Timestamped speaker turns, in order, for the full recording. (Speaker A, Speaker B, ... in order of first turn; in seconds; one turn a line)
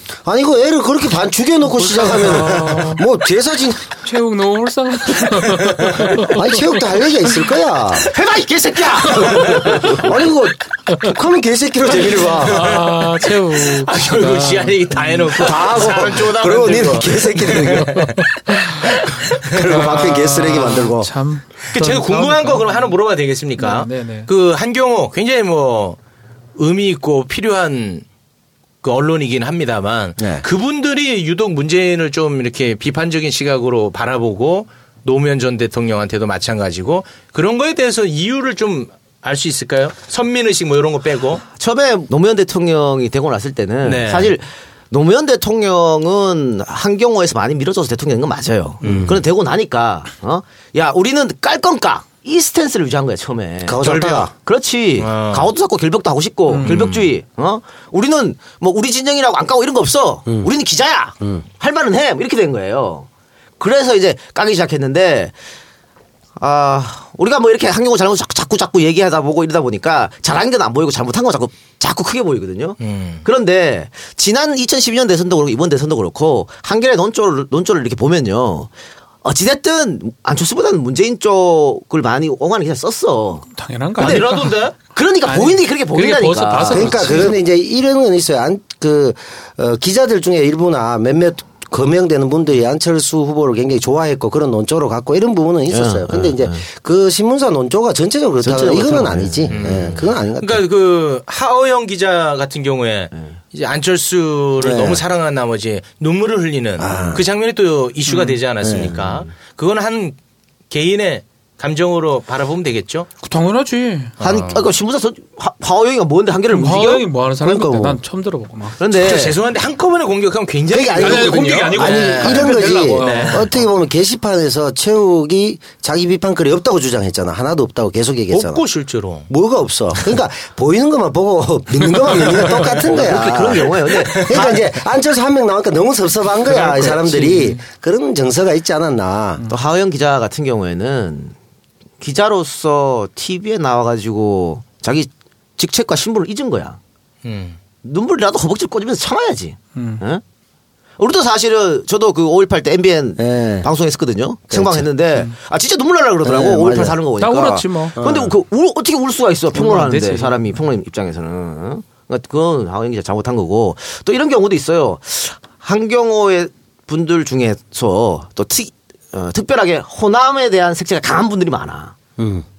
Speaker A: 0.2-3.8
Speaker B: 1.8-3.0
Speaker B: 4.0-6.4
Speaker C: 5.8-6.2
Speaker A: 6.3-8.1
Speaker D: 8.0-10.1
Speaker C: 9.1-9.9
Speaker A: 9.7-12.8
Speaker C: 12.3-19.7
Speaker B: 12.4-15.5
Speaker A: 15.3-18.1
Speaker B: 18.0-18.9
Speaker A: 19.4-21.1
Speaker B: 19.5-22.9
Speaker C: 21.7-26.0
Speaker B: 23.6-24.3
Speaker C: 26.6-28.1
Speaker C: 28.8-41.4
Speaker A: 30.2-30.4
Speaker D: 41.5-53.9
Speaker C: 43.8-44.4
Speaker A: 48.9-49.2
Speaker A: 53.6-54.3
Speaker C: 53.8-54.3
Speaker D: 54.4-63.1
Speaker C: 55.0-55.5
Speaker B: 56.5-57.0
Speaker C: 56.6-57.1
Speaker D: 63.6-65.3
Speaker D: 66.4-78.7
Speaker C: 72.8-73.3
Speaker D: 79.2-83.5
Speaker B: 83.5-84.5
Speaker D: 84.0-87.3
Speaker C: 84.0-84.8
Speaker B: 85.2-87.4
Speaker A: 86.7-100.6
Speaker D: 95.7-96.6
Speaker D: 98.4-99.8
Speaker C: 99.5-110.2
Speaker A: 104.6-105.0
Speaker A: 106.8-107.2
Speaker B: 108.1-108.4
Speaker A: 108.6-109.0
Speaker C: 110.7-113.1
Speaker B: 113.2-114.1
Speaker C: 114.2-114.7
Speaker D: 114.2-117.1
Speaker B: 116.5-118.8
Speaker A: 117.4-118.0
Speaker D: 118.8-119.4
Speaker C: 118.9-123.6
Speaker A: 120.7-128.6
Speaker B: 121.0-123.5
Speaker C: 128.3-129.3
Speaker A: 129.3-139.4
Speaker D: 132.8-134.6
Speaker C: 133.9-134.5
Speaker B: 137.3-137.6
Speaker D: 139.5-141.3
Speaker D: 142.0-146.8
Speaker C: 147.2-147.6
Speaker D: 147.8-150.2
Speaker B: 149.8-150.0
Speaker D: 151.0-171.9
Speaker A: 153.2-153.7
Speaker A: 154.5-154.9
Speaker A: 156.2-157.0
Speaker B: 157.2-158.0
Speaker A: 157.9-158.4
Speaker B: 159.5-160.6
Speaker A: 172.2-172.4